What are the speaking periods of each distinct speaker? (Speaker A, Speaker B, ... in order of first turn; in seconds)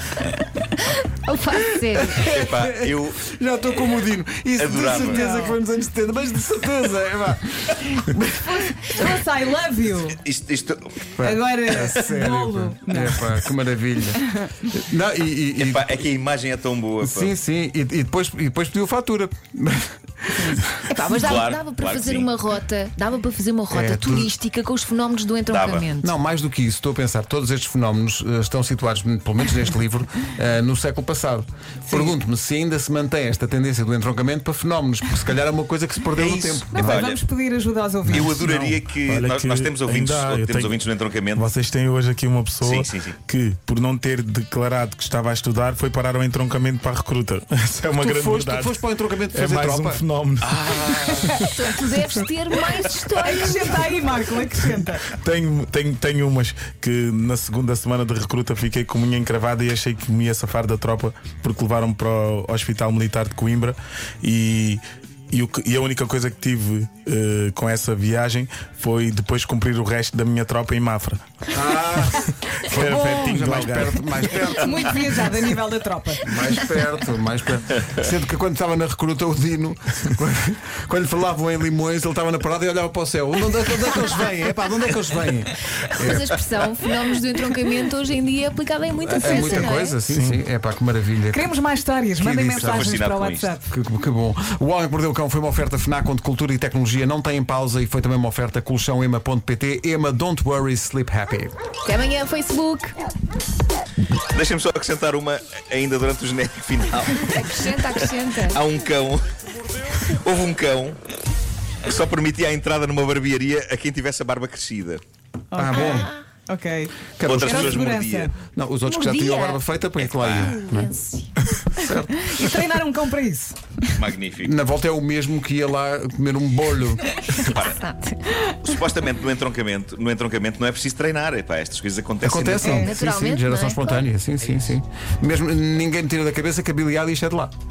Speaker A: 1.1-2.2, 20.9-26.1, 51.5-53.8, 86.0-90.0, 101.8-103.0, 107.2-108.6, 118.8-119.6, 120.4-121.3, 127.3-128.3, 132.6-134.1
Speaker B: 1.9-9.1, 11.2-15.9, 17.0-20.8, 23.7-24.3, 26.0-37.0, 48.0-50.0, 71.5-75.0, 76.2-86.3, 89.0-91.5, 92.2-93.0, 93.7-101.5, 115.6-116.1, 117.2-117.8, 118.4-120.9, 121.5-122.3, 124.4-127.0, 132.2-137.5
Speaker C: 2.2-3.2, 4.6-5.2, 10.1-11.9, 15.6-17.4, 21.1-22.3, 25.5-25.9, 36.1-37.2, 38.1-41.5, 42.6-43.2, 50.4-51.4, 92.5-93.5, 104.3-111.0, 111.8-115.0, 117.2-118.3, 120.0-120.6, 123.9-124.5, 127.3-127.8, 128.6-132.9
Speaker D: 5.0-5.6, 8.9-10.2, 11.2-13.2, 31.9-32.1, 36.7-38.5, 53.2-55.1, 74.5-76.2, 91.3-93.7, 115.5-118.3, 122.2-123.9, 132.5-132.9
Speaker E: 38.2-40.8, 41.4-48.8, 49.3-51.5, 55.1-71.2, 72.5-74.0, 90.1-90.4